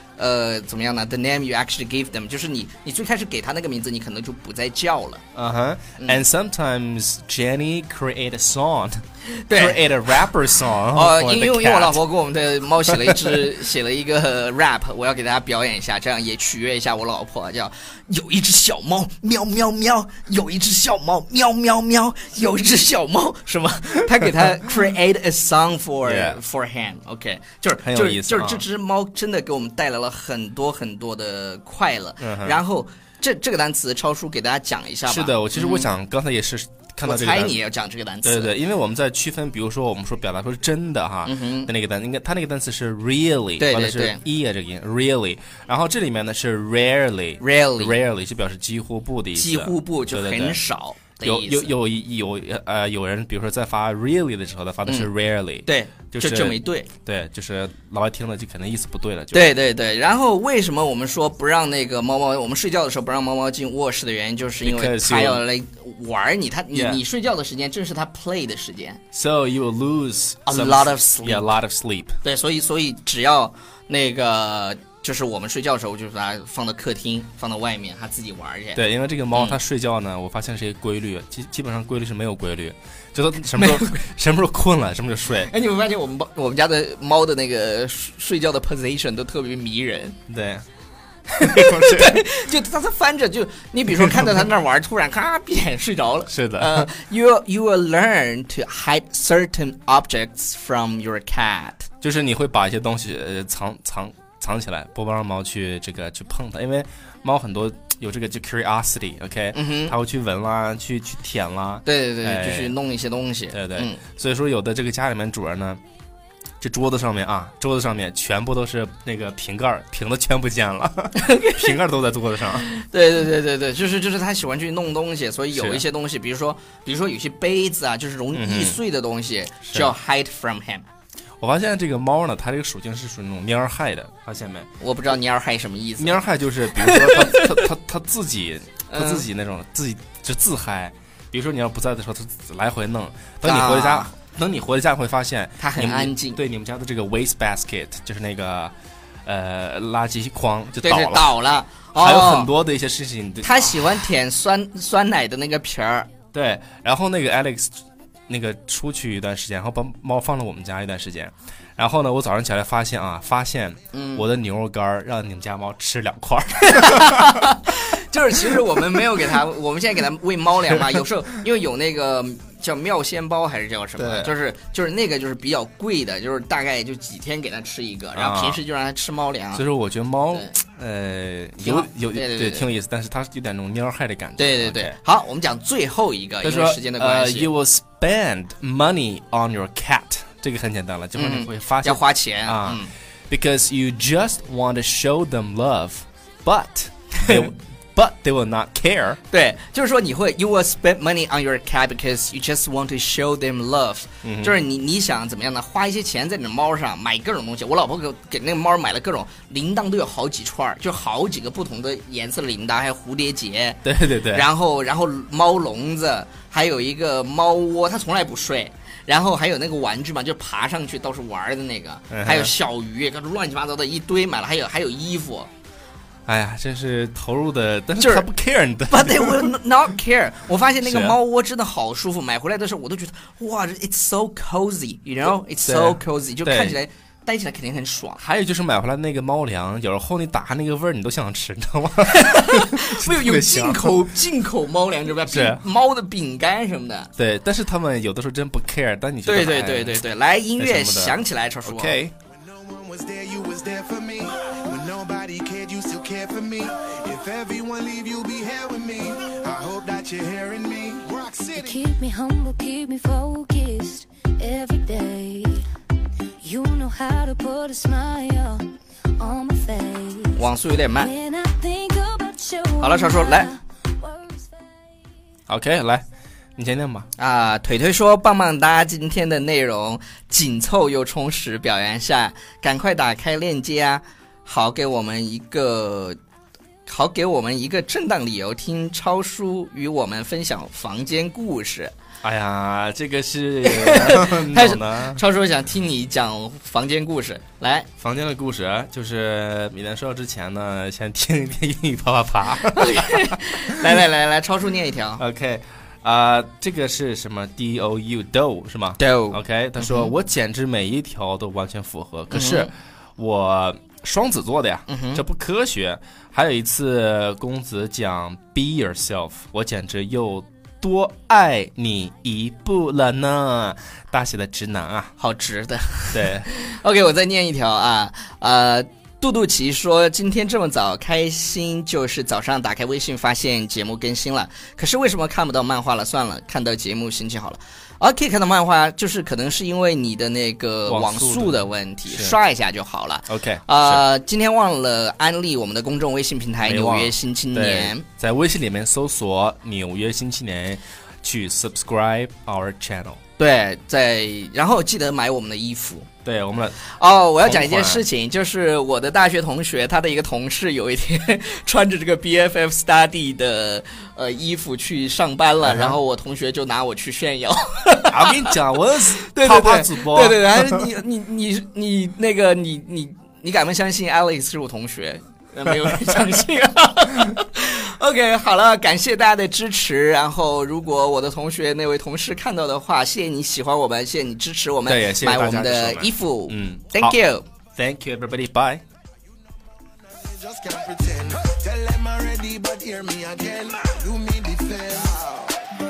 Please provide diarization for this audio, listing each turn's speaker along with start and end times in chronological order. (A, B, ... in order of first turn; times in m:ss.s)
0:00.2-0:05.2 A
0:05.4-0:12.0 B
0:06.0-0:06.2 A
0:09.4-0:09.8 A
0:10.9-0:35.9 A
0:13.0-0:13.3 B
0:26.0-0:26.4 B
0:27.8-0:28.6 B
0:32.2-0:32.6 B
0:35.1-0:37.6 B
0:37.0-0:38.5 A
0:38.2-0:50.6 B
0:41.2-0:41.7 A
0:43.6-0:44.2 A
0:47.4-0:48.0 A
0:49.4-0:51.7 A
0:51.2-0:59.5 B
0:55.6-0:56.9 A
0:59.3-1:09.0 A
1:04.6-1:05.4 B
1:06.7-1:07.0 B
1:09.1-1:12.2 B
1:10.5-1:11.5 A
1:12.2-1:18.8 A
1:18.8-1:25.5 B
1:19.3-1:19.6 A
1:23.6-1:24.0 A
1:25.4-1:30.2 A
1:30.3-1:30.6 B
1:31.3-1:32.2 B
1:31.4-1:41.9 A
1:36.3-1:36.9 B
1:42.0-1:52.8 B
1:49.5-1:49.9 A
1:51.8-1:54.0 A
1:53.5-1:55.8 B
1:56.6-2:02.7 B
2:01.2-2:01.6 A
2:02.6-2:10.8 A
2:05.5-2:05.8 B
2:08.3-2:08.8 B
2:09.7-2:09.9 B
2:11.4-2:14.7 B
2:14.8-2:16.2 A
2:16.0-2:28.7 B
2:16.7-2:17.6 A
2:18.9-2:19.3 A
2:23.4-2:24.1 A
2:25.6-2:26.4 A
2:29.2-2:31.4 B
2:30.8-2:32.5 A
2:32.0-2:33.8 B
2:33.4-2:36.1 A
2:36.3-2:47.4 B
2:43.9-2:44.2 A
2:46.7-2:59.6 A
2:54.0-2:54.3 B
2:58.1-2:58.6 B
2:59.5-3:05.0 B
3:01.6-3:02.7 A
3:04.4-3:07.5 A
3:06.4-3:19.2 B
3:11.2-3:12.9 A
3:17.2-3:17.5 A
3:19.3-3:45.5 A
3:24.2-3:24.6 B
3:33.8-3:34.5 B
3:42.1-3:42.5 B
3:46.3-3:49.5 B
3:48.0-3:48.3 A
3:48.9-3:58.2 A
3:50.8-3:51.2 B
3:55.7-3:56.8 B
3:58.2-4:04.0 B
4:02.1-4:07.1 A
4:05.3-4:05.6 B
4:07.2-4:10.0 B
4:09.3-4:12.0 A
4:10.6-4:12.1 B
4:12.4-4:21.8 C
4:21.6-4:25.7 D
4:26.4-4:30.4 D
4:30.4-4:31.1 A
4:31.0-4:34.7 D
4:32.8-4:33.5 A
4:35.5-4:36.0 B
4:36.6-4:37.1 B
4:37.2-4:46.2 A
4:46.9-4:51.9 A
4:52.2-4:55.2 B
4:53.6-4:57.9 A
4:58.0-5:03.8 B
5:02.8-5:05.2 A
5:05.2-5:25.1 B
5:09.0-5:10.1 A
5:12.3-5:12.7 A
5:14.9-5:15.2 A
5:25.2-5:48.0 A
5:26.1-5:26.5 B
5:40.9-5:42.4 B
5:43.3-5:44.0 B
5:46.6-5:53.2 B
5:53.4-5:56.1 A
5:56.2-5:56.9 B
5:56.9-6:08.6 A
5:57.4-5:58.0 B
6:05.6-6:06.0 B
6:08.1-6:10.9 B
6:09.2-6:27.4 A
6:24.8-6:27.2 B
6:27.8-6:28.8 B
6:30.2-6:35.5 C